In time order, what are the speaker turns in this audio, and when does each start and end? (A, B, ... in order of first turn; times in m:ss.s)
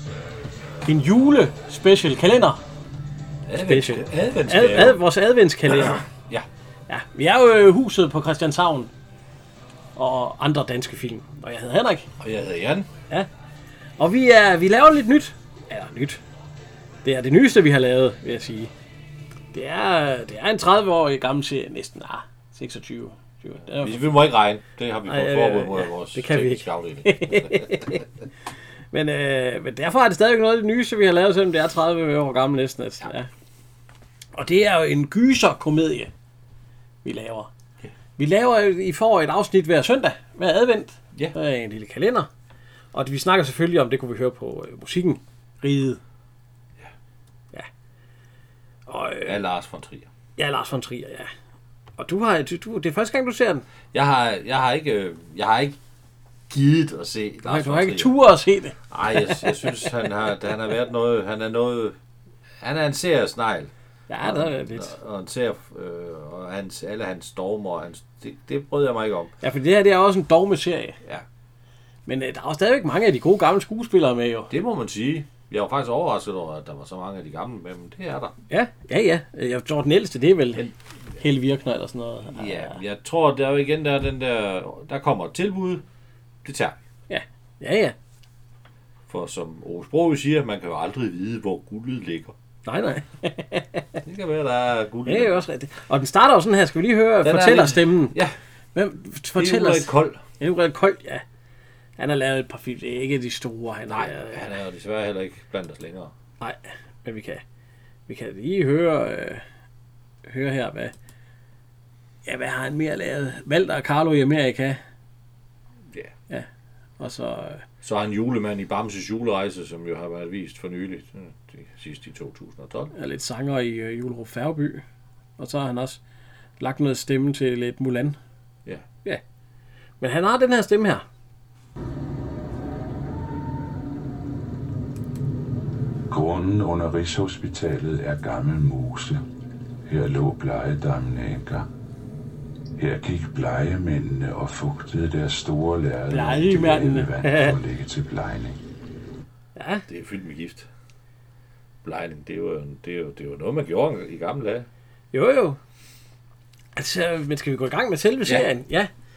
0:00.8-0:02.6 A
0:03.5-0:05.0 B
0:03.6-0:06.0 A
0:05.7-0:06.5 B
0:06.9-0:08.9 A
0:10.0-0:12.0 A
0:12.2-0:12.9 B
0:14.0-0:16.2 A
0:17.0-0:18.7 A
0:19.5-0:24.0 A
0:23.8-0:28.0 B
0:25.1-0:28.0 A
0:28.9-0:33.3 A
0:34.3-0:36.1 A
0:37.0-0:37.5 A
0:38.2-0:42.3 A
0:42.9-0:46.0 A
0:48.9-0:49.3 A
0:49.2-0:50.1 B
0:50.4-0:51.3 A
0:52.0-0:53.6 A
0:53.9-0:55.8 B
0:56.5-0:58.1 B
0:57.4-0:59.4 A
0:58.9-1:02.0 B
1:02.6-1:03.7 B
1:04.1-1:04.9 A
1:04.2-1:09.3 B
1:09.4-1:11.0 A
1:12.1-1:14.5 A
1:14.5-1:18.3 B
1:18.5-1:20.7 A
1:21.2-1:22.8 A
1:22.3-1:25.8 B
1:26.4-1:26.8 B
1:27.1-1:27.9 A
1:29.1-1:32.3 B
1:32.6-1:33.8 A
1:34.0-1:35.4 B
1:35.0-1:38.1 A
1:37.2-1:38.3 B
1:38.7-1:39.9 A
1:39.4-1:40.2 B
1:40.4-1:41.2 A
1:42.0-1:44.4 A
1:43.9-1:46.1 B
1:46.4-1:47.4 A
1:48.1-1:49.4 A
1:50.2-1:50.9 A
1:52.2-1:54.8 A
1:57.0-1:57.6 A
1:57.8-2:02.9 B
2:02.9-2:04.8 A
2:05.4-2:06.0 A
2:06.6-2:08.2 A
2:10.0-2:11.0 A
2:16.1-2:19.2 C
2:19.8-2:21.7 C
2:22.8-2:28.6 C
2:26.1-2:27.5 A
2:29.6-2:29.8 A
2:29.9-2:30.7 B
2:31.8-2:34.7 B
2:35.1-2:35.6 A
2:36.7-2:38.9 A